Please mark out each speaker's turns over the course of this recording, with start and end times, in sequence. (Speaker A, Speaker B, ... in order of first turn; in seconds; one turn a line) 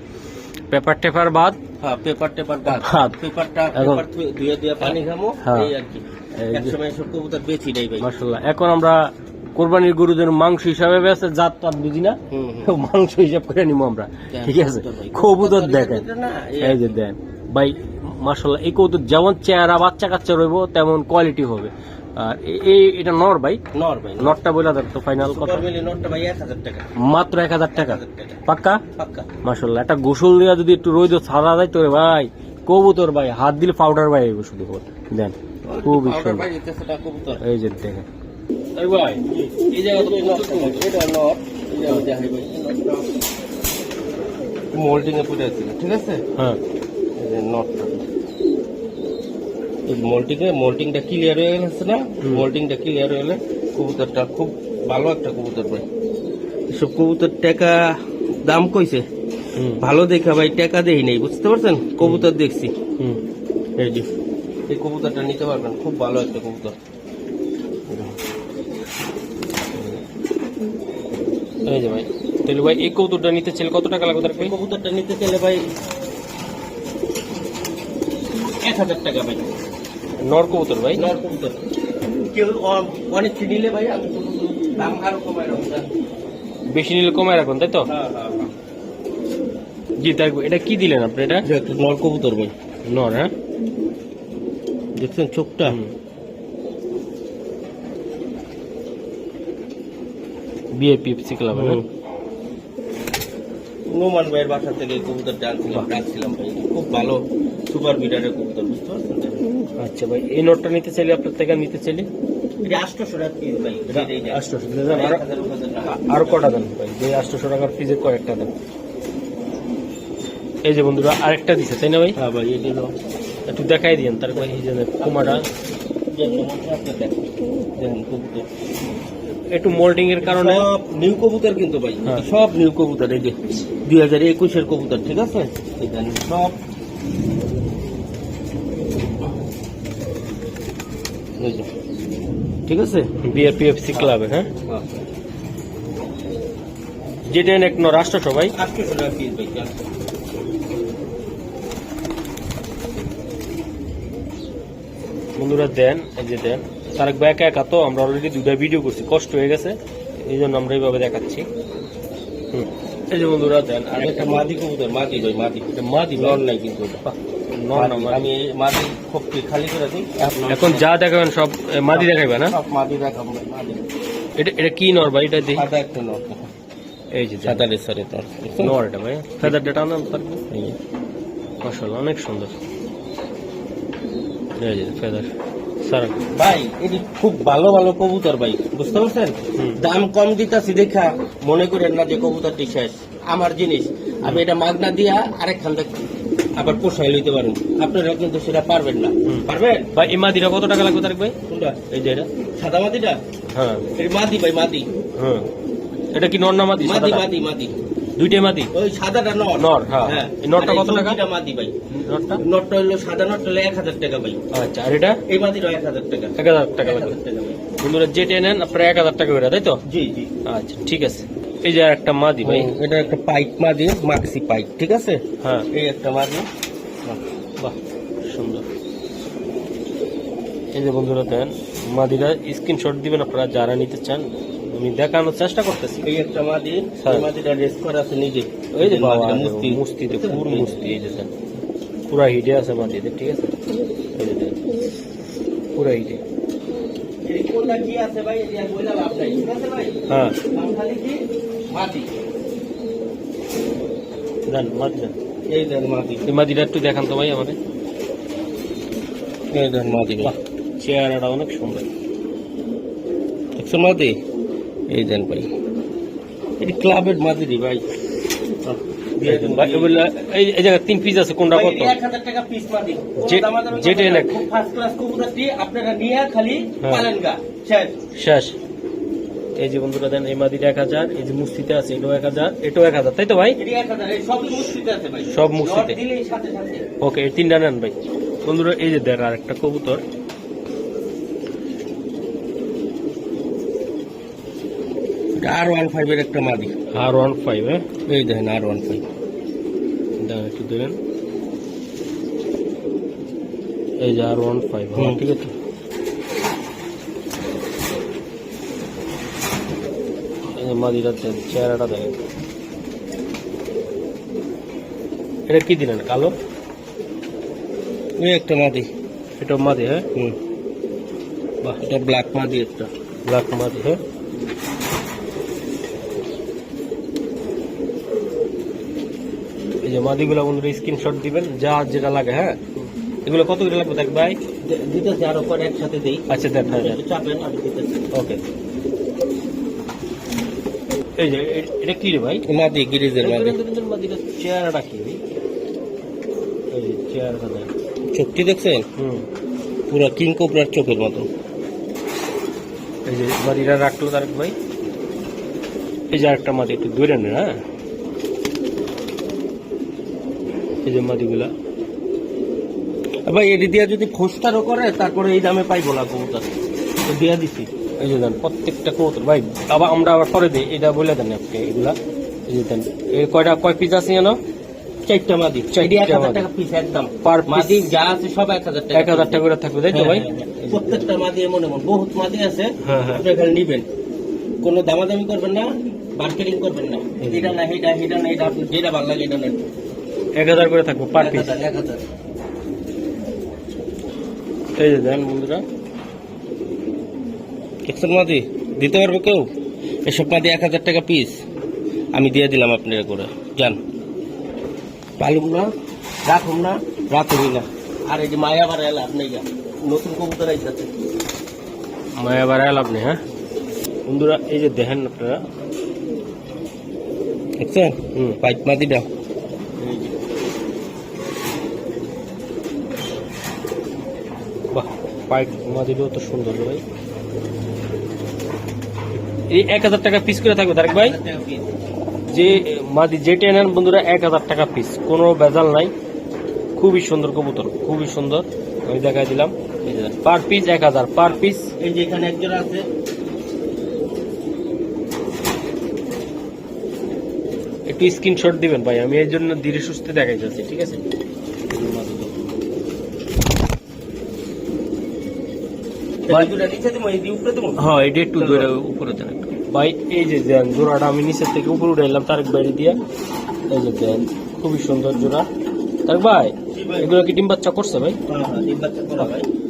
Speaker A: 0.7-1.6
Speaker B: 1.8-8.1
Speaker A: 2.7-3.1
Speaker A: 3.7-4.0
Speaker A: 4.8-5.7
Speaker A: 6.3-6.7
Speaker A: 8.0-16.0
Speaker B: 12.3-12.7
Speaker B: 14.3-16.9
Speaker A: 16.6-23.6
Speaker B: 23.7-24.4
Speaker A: 24.2-25.6
Speaker B: 25.2-26.8
Speaker A: 27.0-28.8
Speaker B: 27.7-28.4
Speaker B: 28.9-29.3
Speaker A: 29.4-36.4
Speaker B: 35.6-37.4
Speaker A: 37.4-38.0
Speaker A: 38.8-40.9
Speaker B: 39.2-43.1
Speaker B: 44.7-46.2
Speaker B: 47.2-48.0
Speaker B: 49.9-55.8
Speaker B: 56.7-57.8
Speaker B: 58.4-59.0
Speaker B: 59.8-62.7
Speaker A: 62.0-62.3
Speaker B: 63.8-64.1
Speaker B: 64.7-66.7
Speaker B: 67.9-68.1
Speaker A: 71.7-74.5
Speaker B: 74.4-75.6
Speaker B: 78.6-79.4
Speaker A: 80.2-81.1
Speaker B: 81.0-85.8
Speaker A: 86.7-87.9
Speaker B: 87.9-88.5
Speaker A: 90.0-91.5
Speaker B: 91.4-92.5
Speaker A: 92.9-93.3
Speaker B: 95.0-95.8
Speaker A: 95.7-95.9
Speaker A: 100.7-101.8
Speaker B: 101.5-101.8
Speaker B: 103.9-109.4
Speaker A: 109.8-112.1
Speaker B: 112.6-116.6
Speaker A: 113.9-115.2
Speaker A: 115.9-118.5
Speaker A: 120.6-122.2
Speaker B: 122.2-122.9
Speaker A: 123.5-125.5
Speaker B: 125.0-125.5
Speaker B: 126.1-128.4
Speaker A: 129.5-130.7
Speaker B: 130.2-136.6
Speaker B: 141.4-141.7
Speaker B: 142.7-143.1
Speaker A: 143.2-144.5
Speaker B: 144.7-145.0
Speaker A: 147.3-148.5
Speaker B: 148.5-149.7
Speaker A: 155.4-161.4
Speaker A: 162.5-164.5
Speaker B: 163.9-167.0
Speaker A: 165.7-166.4
Speaker A: 167.0-168.3
Speaker B: 167.7-170.8
Speaker A: 170.5-172.5
Speaker B: 171.9-173.8
Speaker A: 174.4-175.6
Speaker B: 175.5-176.5
Speaker A: 177.1-177.6
Speaker B: 177.4-178.7
Speaker A: 178.6-180.5
Speaker A: 181.6-182.5
Speaker A: 184.6-185.3
Speaker A: 185.8-186.2
Speaker B: 186.3-195.9
Speaker B: 196.6-199.9
Speaker A: 199.3-201.3
Speaker B: 201.5-201.8
Speaker A: 201.9-202.3
Speaker B: 202.6-203.2
Speaker A: 203.5-203.8
Speaker B: 204.0-204.8
Speaker A: 205.2-205.4
Speaker A: 206.1-207.3
Speaker B: 206.8-207.7
Speaker A: 208.2-208.7
Speaker B: 208.7-211.7
Speaker A: 209.6-211.2
Speaker A: 211.9-212.4
Speaker B: 212.4-214.4
Speaker A: 214.5-215.2
Speaker B: 215.3-217.6
Speaker A: 216.4-217.1
Speaker A: 217.8-219.8
Speaker B: 219.9-220.3
Speaker A: 220.4-222.7
Speaker B: 222.4-225.2
Speaker B: 225.7-226.4
Speaker A: 227.6-228.7
Speaker A: 230.7-236.1
Speaker B: 236.0-240.8
Speaker A: 237.0-237.3
Speaker A: 238.7-241.3
Speaker A: 242.1-243.5
Speaker A: 244.2-244.6
Speaker A: 245.8-246.2
Speaker B: 247.2-250.0
Speaker A: 250.1-250.3
Speaker B: 250.5-252.1
Speaker A: 254.5-255.1
Speaker B: 255.5-256.2
Speaker A: 256.2-257.6
Speaker B: 259.5-260.3
Speaker A: 260.2-261.9
Speaker B: 263.6-264.1
Speaker B: 264.9-265.5
Speaker B: 266.6-267.8
Speaker B: 268.6-270.1
Speaker A: 269.2-271.9
Speaker B: 271.5-277.9
Speaker A: 273.2-274.4
Speaker A: 276.8-277.1
Speaker A: 278.2-278.6
Speaker A: 279.6-283.6
Speaker B: 283.6-286.8
Speaker A: 285.3-286.0
Speaker A: 287.0-290.0
Speaker B: 295.4-296.7
Speaker A: 296.9-297.8
Speaker B: 298.1-299.0
Speaker A: 300.2-301.0
Speaker A: 304.0-305.5
Speaker A: 310.5-312.2
Speaker A: 315.5-316.3
Speaker B: 318.2-318.9
Speaker A: 319.4-320.1
Speaker B: 321.8-322.9
Speaker A: 323.2-324.0
Speaker A: 329.8-334.4
Speaker B: 334.6-338.1
Speaker A: 336.3-337.0
Speaker A: 338.1-338.4
Speaker A: 341.1-342.4
Speaker B: 342.5-343.6
Speaker A: 343.2-345.2
Speaker A: 346.7-347.7
Speaker B: 348.1-348.9
Speaker A: 349.0-349.2
Speaker B: 349.9-351.3
Speaker A: 353.1-354.5
Speaker A: 356.1-357.6
Speaker A: 360.8-361.5
Speaker B: 363.3-366.5
Speaker B: 367.1-367.7
Speaker A: 368.0-372.0
Speaker A: 372.5-374.4
Speaker B: 375.1-383.9
Speaker A: 375.7-376.4
Speaker A: 377.2-377.9
Speaker A: 378.9-381.0
Speaker A: 382.8-383.2
Speaker B: 384.6-389.6
Speaker A: 387.2-387.6
Speaker A: 390.4-391.5
Speaker B: 391.1-392.0
Speaker A: 394.8-395.6
Speaker B: 397.9-399.5
Speaker B: 400.0-401.4
Speaker B: 402.1-403.8
Speaker B: 405.2-405.7
Speaker B: 406.2-410.9
Speaker A: 412.2-413.2
Speaker A: 414.1-415.4
Speaker B: 417.6-419.1
Speaker A: 424.7-426.8
Speaker A: 429.5-431.1
Speaker B: 430.8-431.7
Speaker A: 432.3-435.9
Speaker A: 436.8-441.7
Speaker B: 441.2-442.8
Speaker A: 447.9-451.0
Speaker A: 451.7-452.3
Speaker B: 456.3-457.8
Speaker A: 457.8-463.0
Speaker B: 458.4-458.7
Speaker A: 463.7-465.5
Speaker A: 466.1-468.2
Speaker B: 466.7-467.1
Speaker B: 468.3-469.5